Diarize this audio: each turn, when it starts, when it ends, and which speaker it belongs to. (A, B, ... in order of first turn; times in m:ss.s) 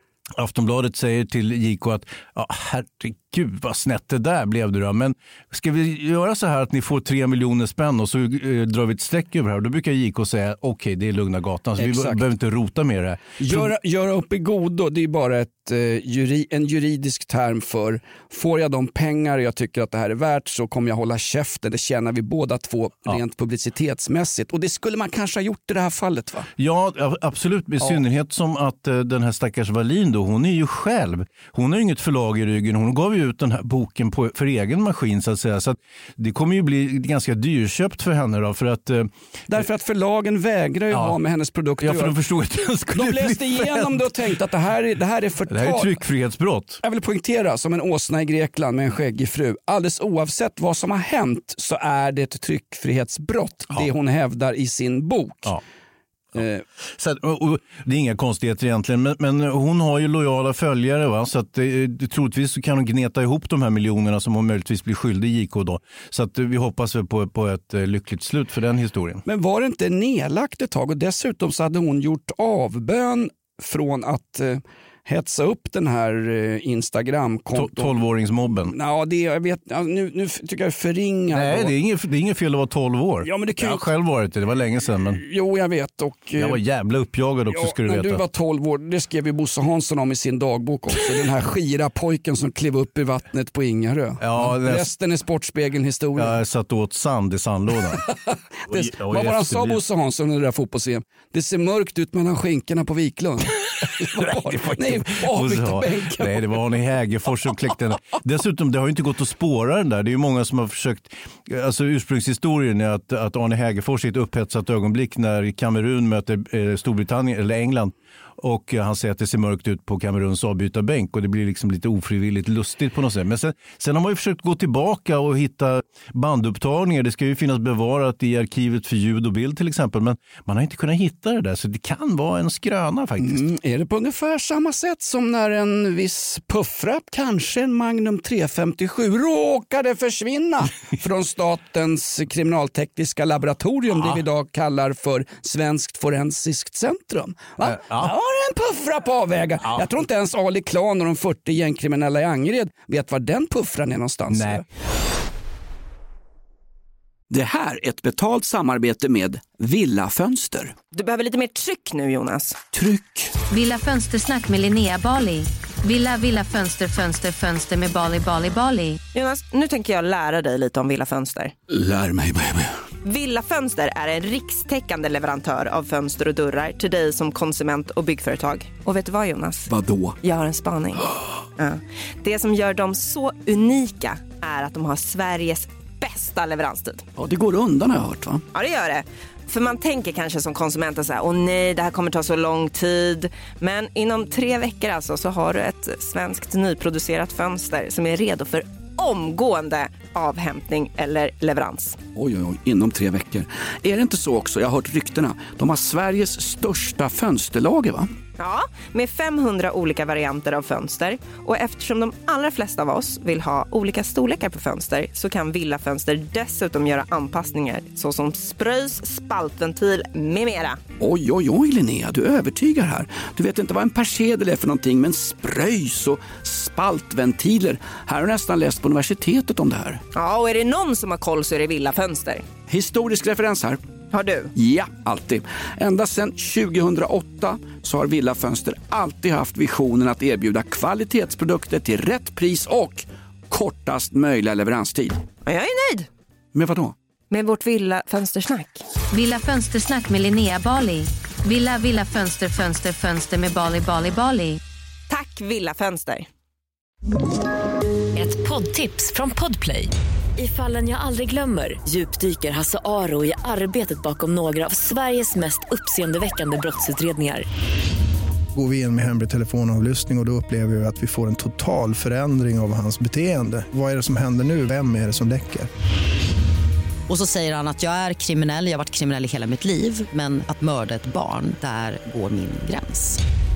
0:00.4-0:13.7 A
0:11.8-0:12.2 B
0:13.4-0:26.5 B
0:26.6-0:39.1 A
0:39.5-0:42.1 B
0:40.9-0:41.2 A
0:41.8-0:44.2 A
0:42.9-0:46.0 B
0:45.5-0:46.8 A
0:46.8-0:55.5 B
0:56.3-1:09.2 A
0:56.4-0:56.6 B
1:09.2-1:17.9 B
1:17.5-1:18.7 A
1:18.7-1:21.7 B
1:21.3-1:25.2 A
1:23.2-1:23.8 B
1:25.2-1:26.6 B
1:26.4-1:28.2 A
1:27.5-1:36.3 B
1:34.2-1:34.9 A
1:36.2-1:38.0 A
1:38.0-1:46.6 B
1:38.7-1:39.8 A
1:43.8-2:13.4 A
2:13.2-2:34.6 B
2:27.6-2:28.1 A
2:34.3-2:34.6 A
2:37.3-2:40.7 B
2:40.9-2:42.6 C
2:42.7-2:43.3 B
2:43.5-2:49.0 D
2:49.1-2:51.5 C
2:51.7-2:52.8 B
2:53.0-2:59.7 C
2:59.6-3:00.2 B
3:00.2-3:07.0 C
3:07.2-3:08.4 B
3:08.5-3:22.0 C
3:22.1-3:28.1 B
3:28.4-3:40.8 C
3:41.0-3:50.0 B
3:50.1-3:52.4 C
3:52.7-3:53.8 B
3:54.1-3:54.5 C
3:54.5-4:05.2 B
4:05.4-4:06.1 C
4:06.5-4:06.9 B
4:07.3-4:08.8 C
4:09.1-4:14.6 D
4:15.1-4:16.3 C
4:18.1-4:27.4 E
4:28.5-4:35.7 F
4:37.1-4:43.2 G